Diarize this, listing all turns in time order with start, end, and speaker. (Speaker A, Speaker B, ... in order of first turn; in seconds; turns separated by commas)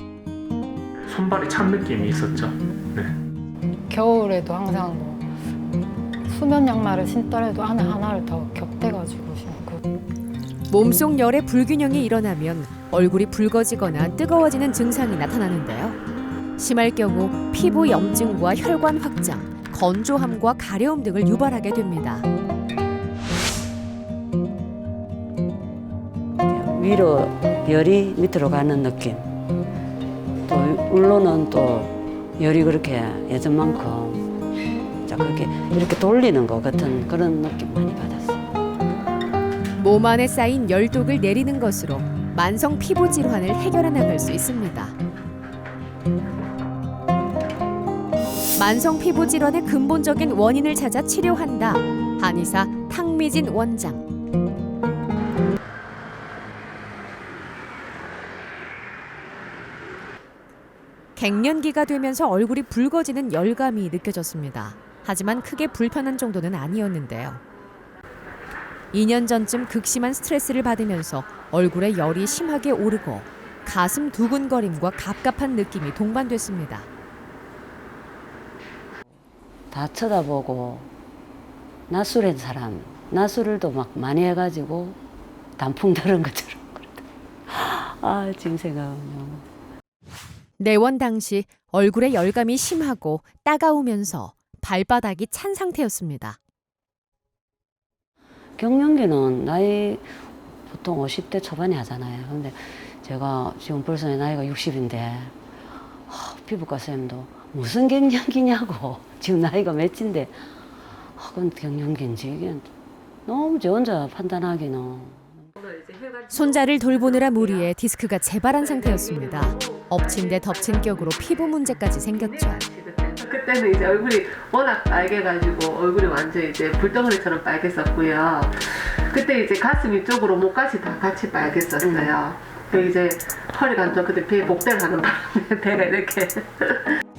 Speaker A: 1.0-3.2, Speaker B: 3.9-5.3, Speaker B: 6.3-9.9, Speaker C: 10.7-16.0, Speaker C: 16.6-22.3, Speaker D: 26.4-29.4, Speaker D: 30.5-34.3, Speaker D: 35.1-38.4, Speaker C: 39.8-45.0, Speaker C: 48.6-54.1, Speaker C: 61.2-67.4, Speaker C: 68.9-76.9, Speaker D: 79.7-80.9, Speaker D: 81.9-85.0, Speaker D: 85.6-89.5, Speaker C: 90.6-96.4, Speaker D: 98.6-100.1, Speaker D: 100.7-105.3, Speaker D: 106.1-110.5, Speaker D: 111.2-112.7, Speaker D: 113.3-115.4, Speaker E: 115.6-117.7, Speaker C: 116.3-122.6, Speaker E: 118.6-137.0, Speaker D: 131.8-132.2